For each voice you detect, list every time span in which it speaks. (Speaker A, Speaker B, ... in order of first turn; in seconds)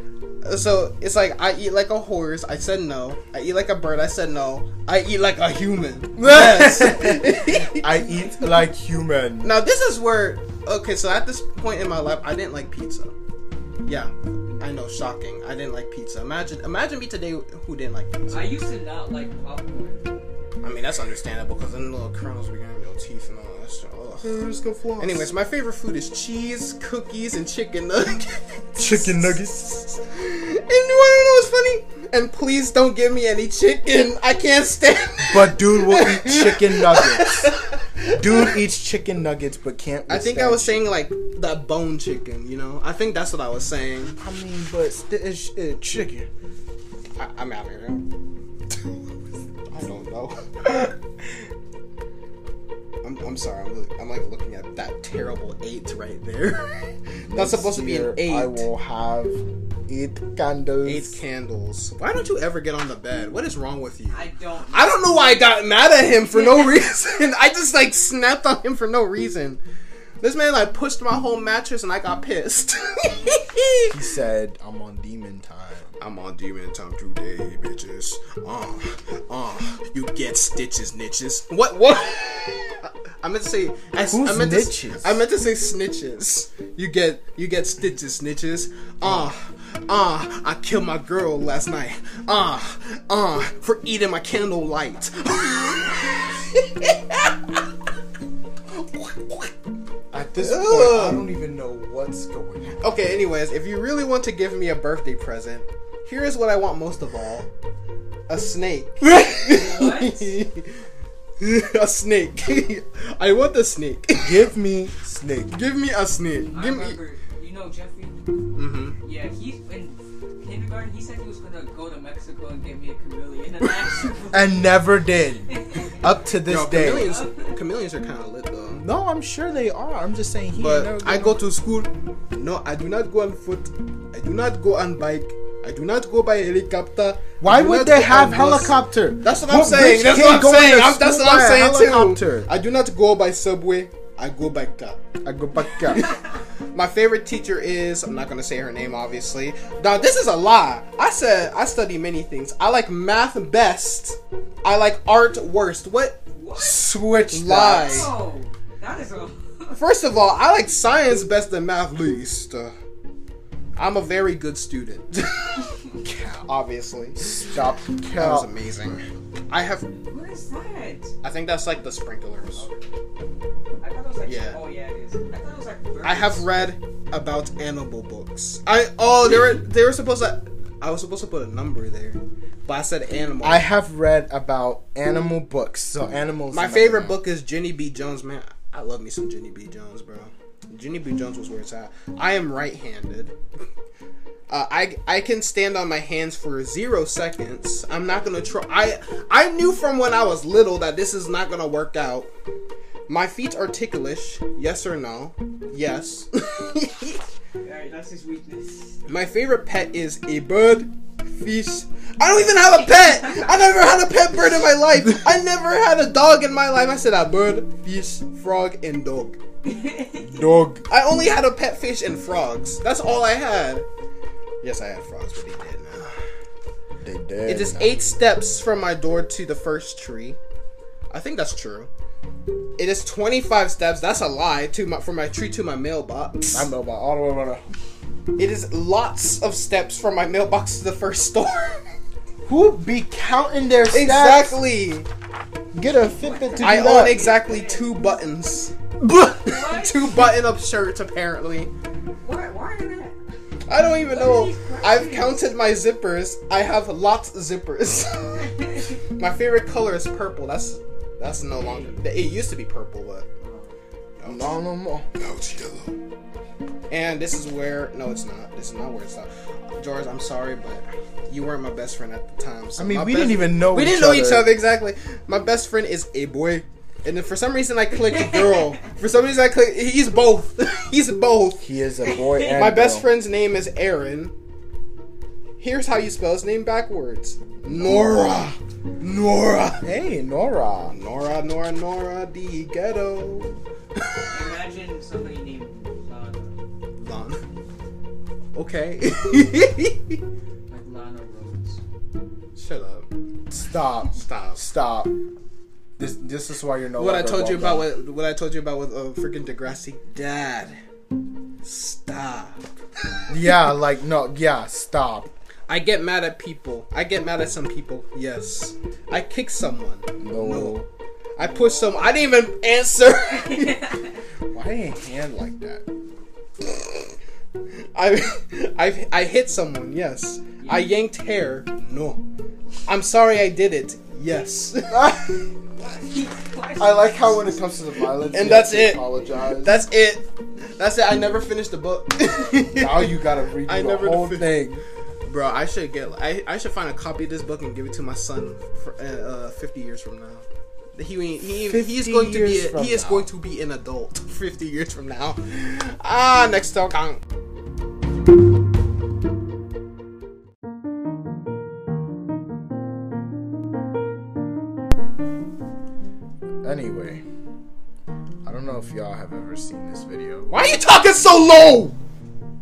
Speaker A: 0.4-7.9, 9.4-13.1, 13.8-18.6, 20.6-24.3, 25.0-38.6, 40.1-44.2, 47.2-48.0, 49.7-50.9, 53.0-58.6, 60.8-69.6, 70.2-74.0, 76.0-97.7, 98.7-99.5, 100.4-101.2, 102.8-107.5, 108.3-110.8, 111.4-114.5, 115.5-117.0, 118.5-119.0, 126.5-128.8, 130.6-145.0, 145.9-146.2, 146.7-156.2, 157.3-158.1, 159.8-162.7, 163.8-167.4, 168.1-169.9, 171.2-172.7, 174.2-174.6, 176.0-183.7, 186.5-193.4, 194.5-202.3, 203.1-207.2, 209.1-219.4, 220.9-223.8, 224.6-226.2, 227.5-230.4, 231.1-231.9, 232.8-236.7, 238.4-241.8, 243.9-245.1, 246.6-248.7, 249.4-251.7, 253.7-263.3, 264.2-264.5, 265.1-265.9, 266.9-281.6, 282.5-284.3, 285.6-289.9, 290.9-293.6, 297.0-297.4, 298.5-300.2, 302.5-303.1, 304.2-304.6, 306.9-310.8, 311.6-312.6, 315.7-320.8, 321.4-324.0, 326.6-326.9, 327.9-332.2, 332.9-335.2, 338.3-339.1, 339.6-344.6, 345.2-357.2, 370.5-371.9
Speaker B: 6.2-9.5, 24.2-25.3, 28.8-29.8, 35.3-40.9, 44.2-46.3, 57.3-61.2, 73.9-76.0, 84.1-85.2, 89.0-89.3, 100.1-102.9, 109.0-110.1, 114.2-115.5, 124.3-127.1, 128.8-131.4, 137.4-142.5, 145.2-146.1, 156.6-158.1, 166.0-166.4, 167.2-168.5, 183.4-187.2, 220.3-220.8, 227.0-228.1, 236.5-237.6, 242.4-244.6, 245.7-247.2, 249.0-249.5, 264.2-265.1, 272.8-274.5, 281.6-283.1, 287.6-288.6, 289.8-290.9, 303.5-305.1, 306.0-307.9, 313.3-315.3, 320.2-320.9, 324.5-325.8, 334.9-335.4, 336.8-339.8, 342.8-344.8, 351.6-353.3, 366.6-367.2, 368.4-370.5
Speaker C: 18.3-20.1, 64.1-65.1, 109.5-110.3, 116.4-118.3, 119.0-124.8, 125.5-126.1, 126.8-127.5, 156.3-156.9, 157.8-159.8, 170.0-171.1, 172.5-172.8, 173.8-176.5, 207.6-209.0, 213.0-213.5, 219.6-220.5, 246.2-247.9, 249.2-250.2, 252.2-253.1, 254.1-255.4, 261.5-262.0, 263.4-263.7, 278.1-278.7, 294.3-296.6, 300.7-301.8, 321.4-322.1, 323.4-324.0, 330.6-330.9, 335.8-337.6